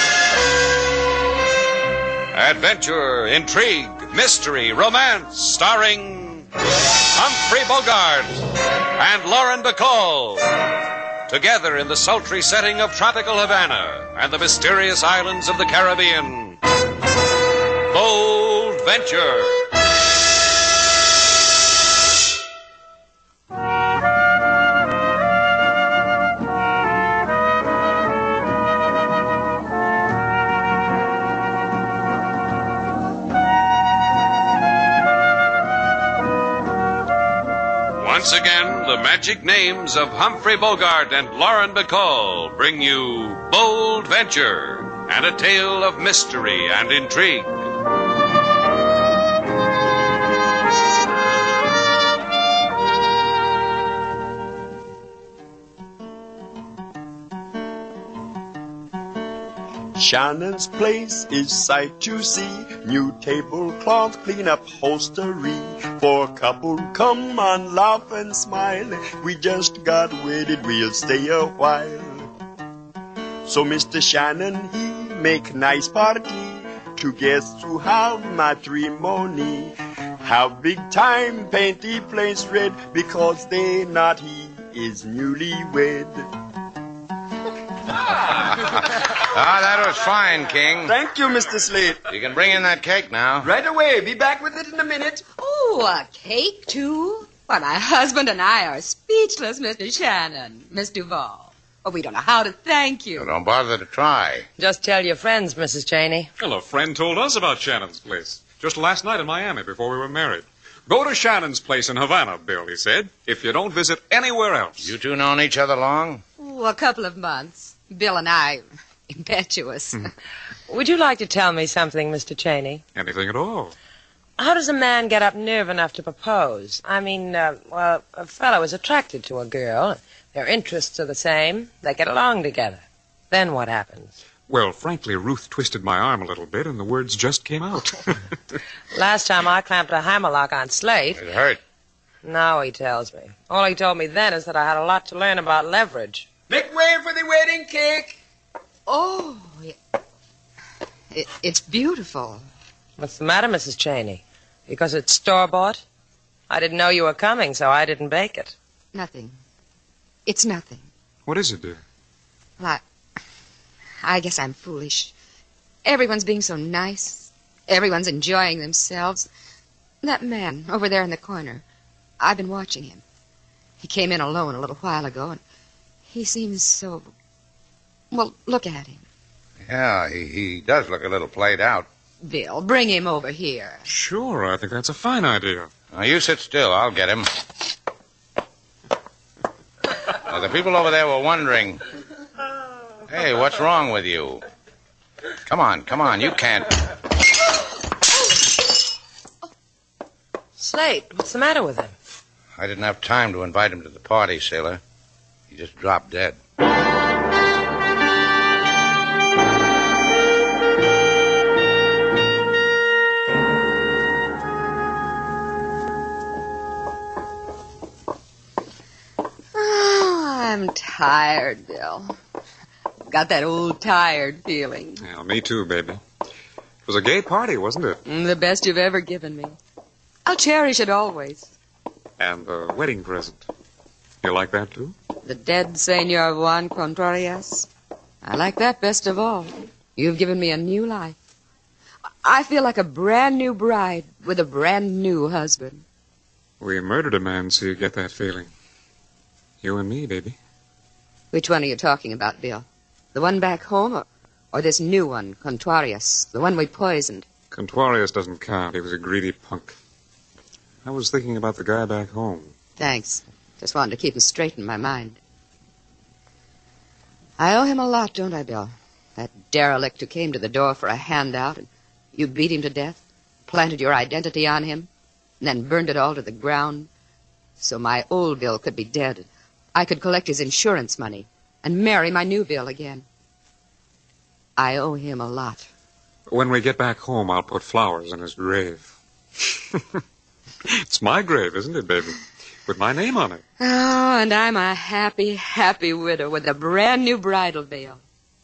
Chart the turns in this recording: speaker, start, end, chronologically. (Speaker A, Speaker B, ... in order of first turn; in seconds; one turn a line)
Speaker A: 2.3-6.5
Speaker A: 7.1-10.6
Speaker A: 11.3-16.6
Speaker A: 17.9-19.7
Speaker A: 38.0-47.5
Speaker B: 60.0-72.3
Speaker B: 73.5-86.3
Speaker C: 88.4-90.9
Speaker B: 90.8-92.0
Speaker C: 92.1-93.5
Speaker B: 93.4-95.2
Speaker D: 95.4-103.3
Speaker C: 103.2-104.5
Speaker E: 104.6-106.3
Speaker F: 106.4-114.9
Speaker C: 114.8-116.2
Speaker D: 116.4-120.1
Speaker E: 120.7-122.8
Speaker F: 123.0-123.7
Speaker E: 124.4-134.2
Speaker F: 134.5-138.1
Speaker E: 138.9-141.2
Speaker C: 141.2-141.6
Speaker E: 142.2-146.3
Speaker B: 146.5-148.2
Speaker D: 148.9-149.8
Speaker D: 151.1-152.4
Speaker E: 153.0-155.8
Speaker E: 156.5-158.6
Speaker D: 158.9-159.3
Speaker D: 160.2-160.9
Speaker F: 161.2-161.8
Speaker D: 164.0-165.1
Speaker D: 165.8-169.3
Speaker D: 170.0-171.6
Speaker D: 172.2-173.0
Speaker D: 173.8-175.4
Speaker D: 176.1-177.1
Speaker D: 178.1-179.0
Speaker C: 179.6-181.9
Speaker D: 182.2-183.8
Speaker F: 183.9-185.7
Speaker C: 185.9-187.3
Speaker C: 190.2-191.8
Speaker C: 193.1-194.4
Speaker C: 195.5-196.9
Speaker E: 200.6-201.9
Speaker C: 202.6-204.8
Speaker C: 205.5-206.4
Speaker D: 219.5-222.2
Speaker D: 223.1-225.0
Speaker F: 225.0-226.0
Speaker F: 226.9-228.0
Speaker D: 228.1-229.6
Speaker D: 230.2-231.5
Speaker F: 232.2-233.5
Speaker F: 234.2-234.9
Speaker D: 235.2-237.7
Speaker D: 238.2-241.2
Speaker D: 242.2-245.8
Speaker F: 246.6-248.5
Speaker F: 249.6-250.4
Speaker D: 251.3-257.3
Speaker F: 257.5-259.8
Speaker F: 260.8-262.5
Speaker D: 262.8-265.2
Speaker D: 267.4-274.9
Speaker D: 275.4-276.9
Speaker D: 277.6-283.1
Speaker D: 284.6-285.6
Speaker F: 286.3-288.9
Speaker F: 290.7-293.4
Speaker D: 293.6-298.0